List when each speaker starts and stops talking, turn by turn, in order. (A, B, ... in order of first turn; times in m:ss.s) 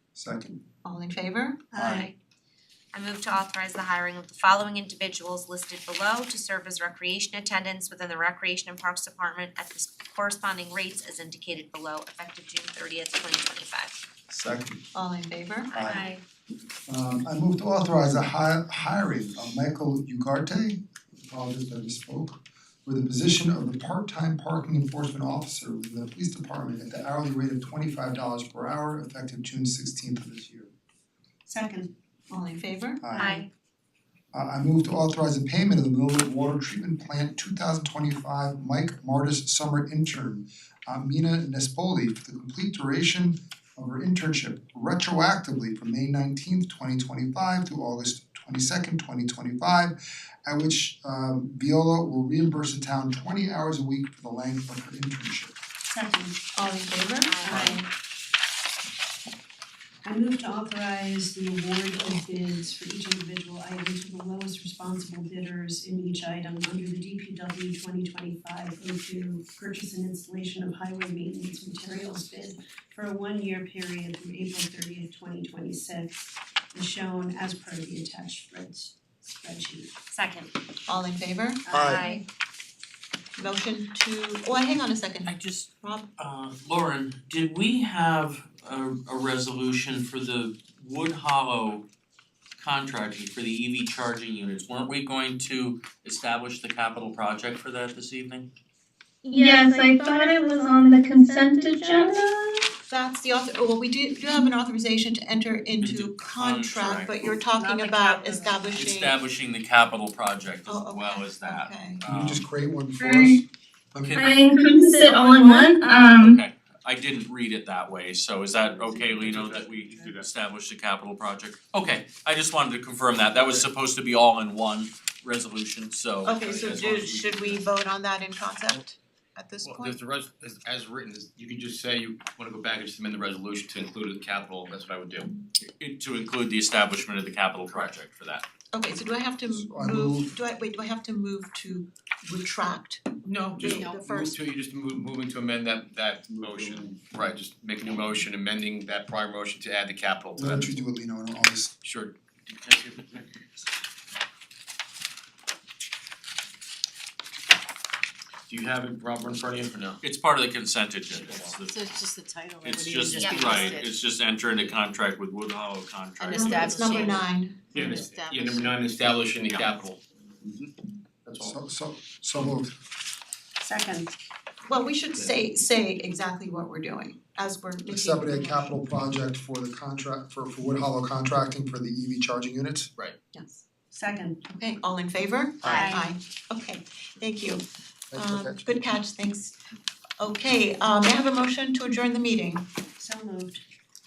0:00.2-0:00.6 A
0:00.8-0:01.6 B
0:01.7-0:02.1 A
0:01.7-0:02.1 C
0:02.9-0:14.0 D
0:14.3-0:14.8 A
0:15.0-0:15.7 B
0:15.7-0:16.1 A
0:15.7-0:16.2 D
0:16.9-0:30.7 A
0:31.5-0:31.9 C
0:32.3-0:33.4 B
0:33.0-0:33.4 A
0:33.2-0:33.5 D
0:34.3-0:55.5 A
0:55.9-0:56.4 C
0:56.6-0:57.8 B
0:57.3-0:57.8 D
0:57.4-0:57.8 C
1:00.0-1:19.9 C
1:20.1-1:20.5 D
1:20.9-1:21.6 B
1:21.6-1:22.2 C
1:21.8-1:22.2 D
1:23.4-1:26.1 B
1:25.2-1:31.8 E
1:32.6-1:38.5 E
1:39.2-1:42.7 F
1:42.9-1:49.2 B
1:45.8-1:47.4 E
1:47.6-1:48.6 D
1:47.7-1:48.3 C
1:48.8-1:52.4 E
1:50.7-1:52.0 B
1:52.1-1:54.3 A
1:53.1-1:53.4 F
1:54.1-1:54.4 E
1:54.2-1:56.4 F
1:55.4-2:07.7 E
1:58.6-2:00.3 G
2:06.2-2:10.0 B
2:09.6-2:15.3 G
2:15.8-2:18.4 E
2:18.7-2:24.4 B
2:19.5-2:20.3 A
2:23.2-2:30.7 G
2:23.7-2:24.0 H
2:30.4-2:31.7 A
2:31.8-2:33.3 G
2:38.5-2:40.0 G
2:40.0-2:42.0 E
2:41.1-2:41.6 G
2:41.6-2:44.0 H
2:42.6-2:47.2 E
2:46.2-2:47.1 H
2:46.3-2:47.7 B
2:47.7-2:50.7 G
2:47.8-2:48.7 H
2:49.5-2:49.8 H
2:51.2-2:51.6 G
2:51.4-2:52.8 A
2:53.6-2:54.1 C
2:54.7-2:58.6 B
2:57.9-3:02.9 A
3:03.3-3:03.6 B
3:03.9-3:04.4 C
3:04.5-3:07.6 B
3:05.6-3:05.9 A
3:05.7-3:06.0 C
3:08.1-3:08.7 A
3:08.1-3:09.6 B
3:10.2-3:12.7 B
3:13.0-3:13.6 C